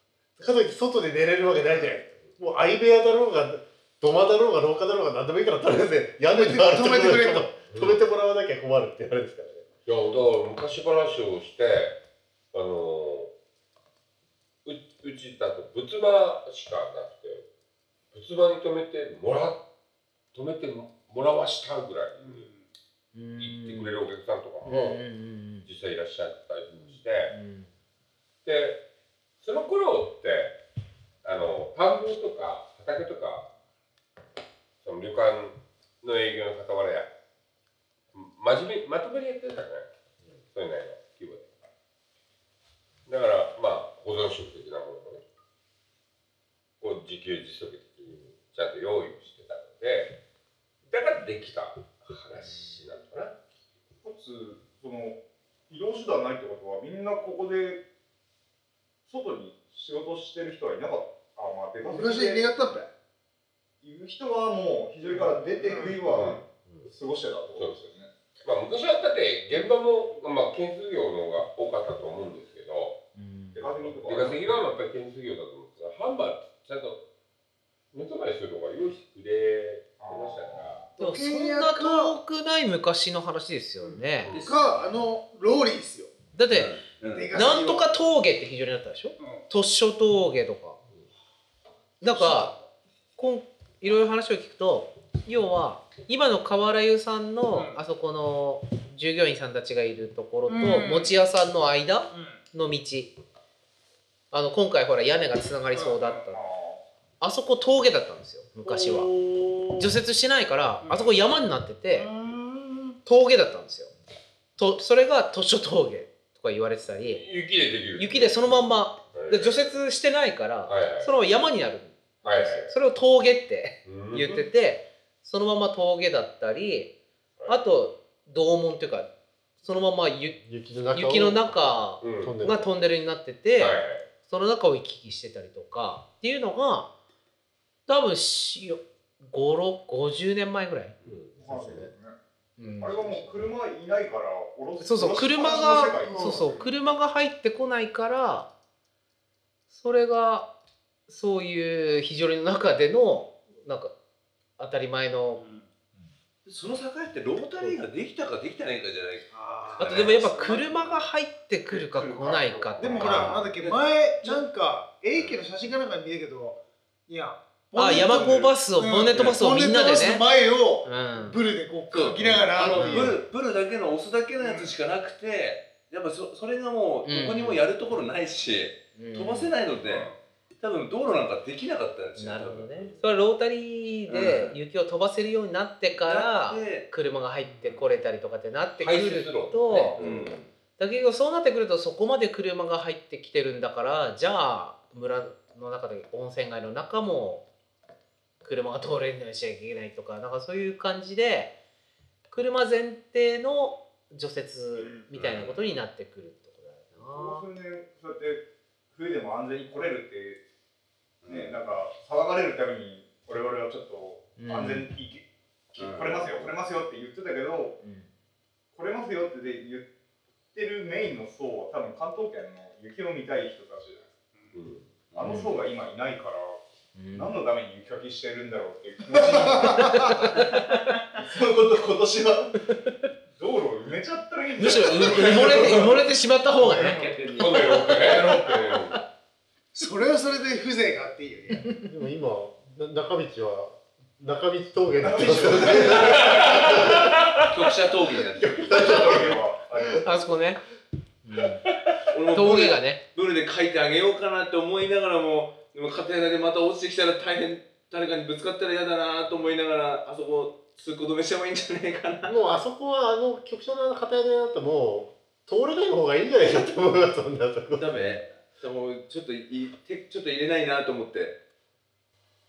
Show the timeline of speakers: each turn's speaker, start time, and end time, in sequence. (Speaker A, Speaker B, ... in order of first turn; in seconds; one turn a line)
Speaker A: 0.4-9.7
Speaker B: 6.3-7.5
Speaker C: 7.7-8.0
Speaker C: 9.9-12.0
Speaker C: 12.5-13.3
Speaker C: 14.7-17.5
Speaker C: 18.1-19.6
Speaker C: 20.3-22.5
Speaker D: 23.1-24.0
Speaker C: 23.4-25.1
Speaker D: 24.6-25.7
Speaker C: 25.6-27.3
Speaker D: 27.3-27.7
Speaker C: 28.4-28.9
Speaker C: 29.4-30.6
Speaker C: 31.2-33.5
Speaker C: 34.8-37.1
Speaker C: 38.1-41.5
Speaker C: 43.1-45.2
Speaker C: 46.8-50.2
Speaker C: 50.9-53.4
Speaker E: 54.0-57.8
Speaker E: 59.1-62.5
Speaker B: 61.8-62.9
Speaker E: 63.8-68.1
Speaker C: 66.0-66.9
Speaker C: 67.5-73.0
Speaker D: 73.2-73.6
Speaker C: 73.5-77.0
Speaker E: 73.6-74.4
Speaker C: 77.9-80.8
Speaker E: 80.0-80.8
Speaker B: 81.0-82.2
Speaker D: 81.0-84.3
Speaker C: 83.8-84.5
Speaker B: 84.4-86.1
Speaker F: 84.4-84.9
Speaker D: 86.3-86.7
Speaker F: 86.5-87.4
Speaker B: 87.1-87.9
Speaker D: 87.3-90.8
Speaker D: 92.0-92.5
Speaker D: 93.2-103.1
Speaker B: 100.5-101.1
Speaker D: 104.3-106.4
Speaker E: 105.7-106.8
Speaker D: 107.2-109.1
Speaker B: 108.7-109.9
Speaker D: 109.8-112.1
Speaker B: 112.0-113.0
Speaker D: 113.0-113.9
Speaker D: 114.6-117.2
Speaker C: 117.0-119.8
Speaker D: 118.0-130.4
Speaker C: 120.7-121.2
Speaker C: 122.2-122.8
Speaker C: 123.8-124.5
Speaker C: 127.4-127.6
Speaker A: 130.4-132.8
Speaker D: 130.9-136.9
Speaker C: 132.0-132.4
Speaker C: 133.5-134.1
Speaker D: 137.9-141.0
Speaker A: 141.1-141.9
Speaker E: 141.4-142.2
Speaker D: 142.6-143.0
Speaker E: 142.8-146.7
Speaker A: 142.8-143.3
Speaker D: 144.8-148.5
Speaker B: 145.4-146.4
Speaker D: 149.7-150.5
Speaker D: 151.1-153.9
Speaker D: 154.6-155.4
Speaker F: 155.4-155.7
Speaker F: 156.4-161.1
Speaker B: 159.3-160.1
Speaker D: 159.8-163.4
Speaker F: 161.7-164.4
Speaker B: 162.8-173.2
Speaker F: 165.2-165.4
Speaker D: 167.8-170.3
Speaker D: 170.8-171.4
Speaker F: 171.9-183.0
Speaker C: 172.2-173.0
Speaker D: 177.1-177.7
Speaker D: 179.0-179.6
Speaker C: 179.8-180.2
Speaker D: 182.2-190.0
Speaker F: 184.1-184.6
Speaker F: 185.9-186.9
Speaker C: 188.8-190.3
Speaker F: 190.0-190.5
Speaker D: 190.8-197.5
Speaker D: 198.4-201.5
Speaker D: 202.3-207.5
Speaker F: 204.8-205.6
Speaker E: 207.0-210.4
Speaker F: 211.2-211.6
Speaker E: 211.3-217.8
Speaker D: 214.4-214.9
Speaker F: 215.8-216.5
Speaker D: 217.8-218.1
Speaker E: 218.7-219.9
Speaker E: 220.5-224.1
Speaker C: 224.5-225.0
Speaker F: 225.1-225.4
Speaker E: 225.2-226.6
Speaker D: 225.2-225.5
Speaker D: 226.9-227.4
Speaker E: 227.1-230.2
Speaker C: 229.5-229.8
Speaker D: 229.8-230.9
Speaker E: 231.2-232.5
Speaker D: 232.7-232.9
Speaker E: 233.4-236.0
Speaker D: 234.6-237.1
Speaker F: 236.6-238.0
Speaker C: 237.3-239.0
Speaker E: 238.1-238.6
Speaker B: 239.7-241.7
Speaker D: 241.5-241.8
Speaker A: 241.8-246.9
Speaker E: 245.0-246.2
Speaker C: 246.2-247.5
Speaker F: 247.5-249.4
Speaker E: 248.4-250.3
Speaker D: 250.0-250.6
Speaker D: 251.2-251.6
Speaker F: 252.0-262.6
Speaker D: 252.3-253.0
Speaker A: 262.2-268.2
Speaker F: 267.7-271.4